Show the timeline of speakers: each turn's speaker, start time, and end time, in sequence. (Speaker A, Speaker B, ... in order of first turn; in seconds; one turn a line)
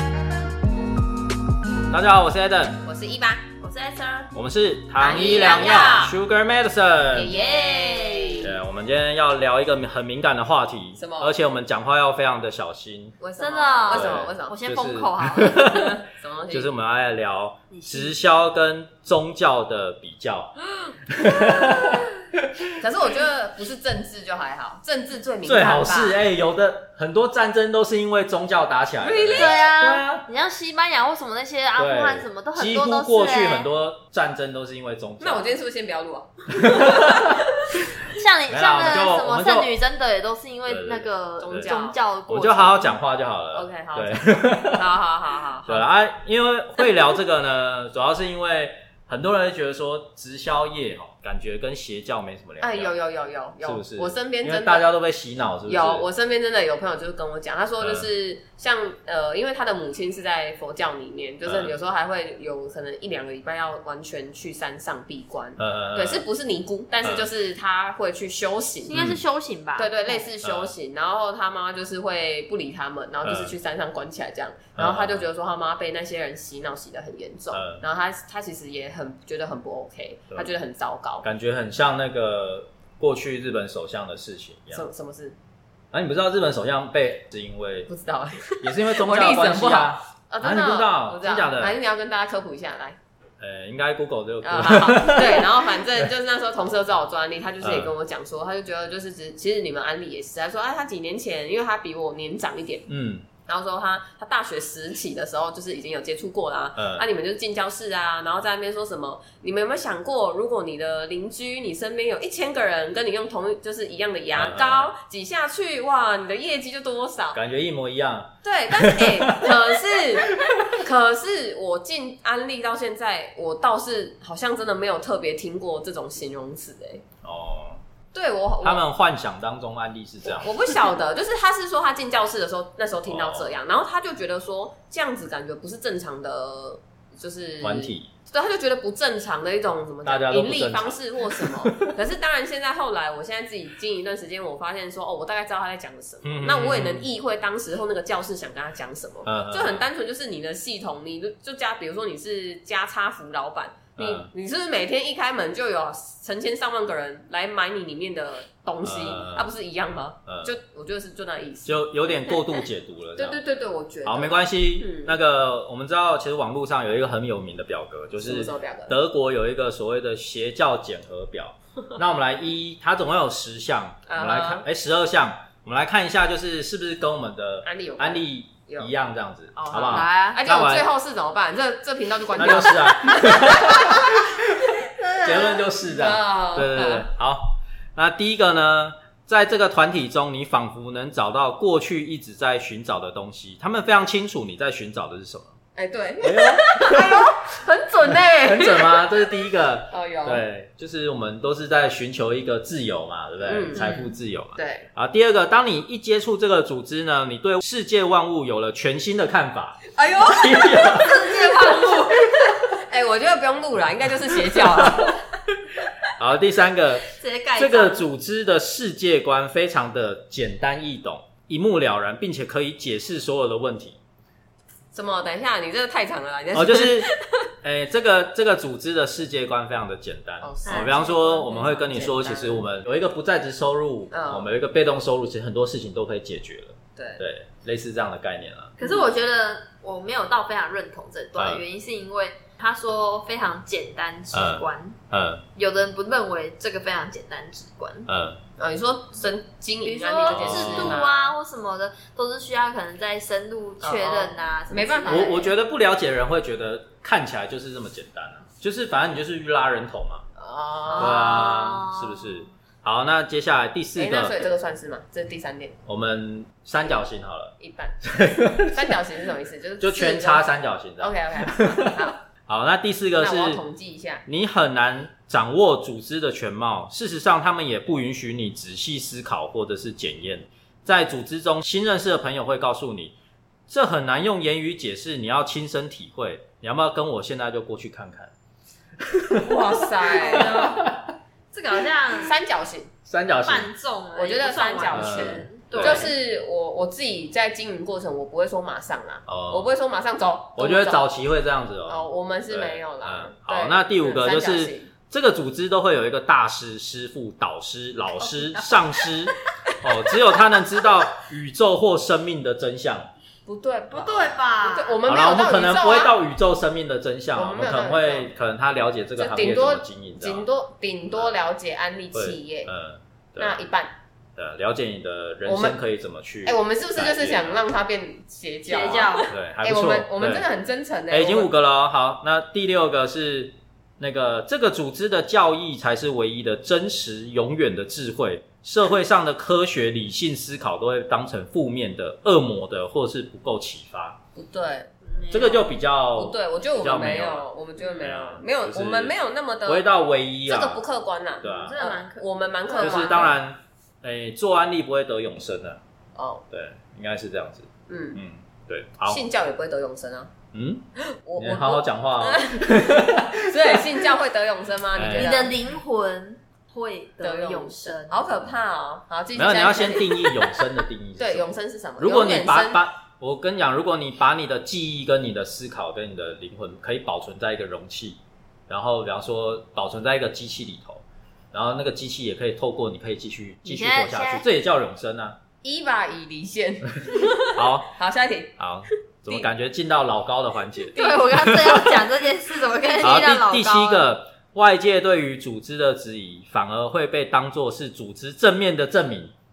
Speaker A: 1.9-2.8
Speaker B: 2.8-3.5
Speaker C: 3.6-4.3
Speaker A: 4.3-7.3
Speaker B: 5.0-6.2
Speaker C: 5.1-6.0
Speaker B: 7.1-8.5
Speaker C: 7.2-8.5
Speaker A: 8.4-13.2
Speaker B: 11.0-11.3
Speaker B: 13.2-14.6
Speaker C: 13.4-15.7
Speaker A: 13.9-16.0
Speaker B: 15.5-16.7
Speaker A: 16.5-20.6
Speaker C: 17.7-18.1
Speaker A: 21.1-22.7
Speaker B: 22.8-26.2
Speaker A: 25.4-30.3
Speaker B: 29.0-29.6
Speaker C: 29.3-33.7
Speaker A: 31.8-35.5
Speaker B: 35.2-37.8
Speaker A: 36.5-37.4
Speaker C: 38.1-43.0
Speaker A: 38.5-39.7
Speaker A: 40.7-41.8
Speaker B: 41.4-42.0
Speaker A: 42.3-44.9
Speaker B: 43.5-45.9
Speaker A: 45.7-52.9
Speaker B: 52.6-54.9
Speaker A: 53.6-56.1
Speaker B: 55.7-69.0
Speaker A: 57.8-58.1
Speaker A: 61.4-61.7
Speaker A: 65.6-66.2
Speaker C: 68.9-70.2
Speaker A: 68.9-69.2
Speaker B: 69.8-81.2
Speaker A: 70.4-70.7
Speaker A: 73.2-73.6
Speaker A: 74.8-75.3
Speaker A: 77.5-77.8
Speaker A: 81.2-84.9
Speaker B: 84.7-85.4
Speaker A: 85.9-87.9
Speaker B: 87.9-93.0
Speaker A: 88.6-91.8
Speaker A: 93.4-96.1
Speaker B: 94.4-102.9
Speaker A: 97.6-97.9
Speaker A: 102.9-103.3
Speaker B: 103.5-117.4
Speaker A: 106.8-107.1
Speaker A: 114.3-114.9
Speaker A: 117.3-120.8
Speaker B: 118.4-127.0
Speaker A: 127.2-127.8
Speaker B: 128.1-128.8
Speaker A: 128.6-130.8
Speaker B: 130.2-162.4
Speaker A: 133.1-133.6
Speaker A: 137.6-138.1
Speaker A: 140.1-141.9
Speaker A: 146.2-147.1
Speaker A: 149.3-149.9
Speaker A: 154.0-154.3
Speaker A: 158.8-159.5
Speaker A: 160.3-160.5
Speaker A: 161.7-163.4
Speaker B: 163.2-165.2
Speaker A: 164.1-180.9
Speaker B: 168.2-169.0
Speaker B: 174.1-174.7
Speaker B: 177.6-178.9
Speaker B: 179.6-187.1
Speaker C: 179.9-180.4
Speaker A: 182.3-184.3
Speaker A: 185.1-195.5
Speaker B: 195.8-199.0
Speaker A: 196.2-197.3
Speaker A: 198.1-212.5
Speaker B: 199.9-200.4
Speaker B: 203.5-204.0
Speaker C: 203.8-204.0
Speaker B: 204.6-204.9
Speaker B: 209.9-215.2
Speaker C: 211.3-212.0
Speaker A: 214.6-215.1
Speaker A: 216.1-224.0
Speaker C: 217.1-218.1
Speaker B: 224.9-227.2
Speaker A: 226.5-227.1
Speaker A: 227.6-238.8
Speaker B: 230.4-232.7
Speaker C: 230.7-230.9
Speaker B: 234.1-234.5
Speaker B: 237.0-237.2
Speaker C: 238.8-245.0
Speaker B: 238.8-239.1
Speaker A: 241.4-241.6
Speaker A: 244.3-245.4
Speaker C: 245.6-248.1
Speaker A: 248.1-248.4
Speaker B: 248.6-251.3
Speaker C: 249.8-255.4
Speaker A: 250.3-251.1
Speaker B: 253.8-255.5
Speaker A: 255.1-260.2
Speaker B: 260.4-261.6
Speaker C: 260.9-262.5
Speaker A: 261.0-264.5
Speaker B: 264.0-265.8
Speaker A: 265.9-269.0
Speaker B: 267.6-270.5
Speaker A: 269.8-273.6
Speaker B: 271.0-272.2
Speaker B: 273.2-274.2
Speaker A: 274.3-283.1
Speaker A: 283.7-288.3
Speaker A: 289.0-291.1
Speaker B: 289.4-290.8
Speaker C: 290.3-290.7
Speaker C: 291.5-292.4
Speaker B: 292.2-292.9
Speaker A: 293.1-293.7
Speaker C: 293.4-296.1
Speaker B: 294.1-301.1
Speaker A: 294.9-296.1
Speaker A: 299.3-299.7
Speaker A: 300.6-313.1
Speaker B: 301.9-304.9
Speaker B: 308.2-309.1
Speaker B: 313.5-316.2
Speaker C: 313.9-315.0
Speaker A: 314.1-314.4
Speaker A: 315.1-320.5
Speaker B: 317.3-318.3
Speaker B: 319.2-322.7
Speaker A: 322.1-323.6
Speaker B: 323.4-323.9
Speaker A: 324.4-327.6
Speaker B: 325.5-325.8
Speaker B: 326.4-331.5
Speaker C: 328.7-329.3
Speaker A: 328.9-330.5
Speaker A: 331.1-344.2
Speaker B: 344.4-345.6
Speaker C: 345.1-345.6
Speaker A: 345.3-347.5
Speaker B: 346.1-349.9
Speaker A: 348.0-349.1
Speaker A: 349.7-350.8
Speaker B: 350.5-353.4
Speaker A: 351.4-351.8
Speaker C: 351.4-353.3
Speaker A: 352.8-355.8
Speaker B: 356.2-356.4
Speaker A: 356.5-359.2
Speaker B: 357.9-358.2
Speaker B: 359.1-360.3
Speaker A: 360.5-360.9
Speaker B: 361.1-365.6
Speaker A: 361.4-363.8
Speaker A: 364.9-365.5
Speaker C: 365.1-368.3
Speaker B: 367.2-370.6
Speaker A: 369.3-385.4
Speaker B: 371.2-372.8
Speaker C: 383.6-384.5
Speaker B: 385.6-388.6
Speaker A: 387.5-387.9
Speaker A: 388.6-392.0
Speaker B: 390.9-391.6
Speaker C: 390.9-394.1
Speaker B: 392.8-393.1
Speaker A: 393.0-399.3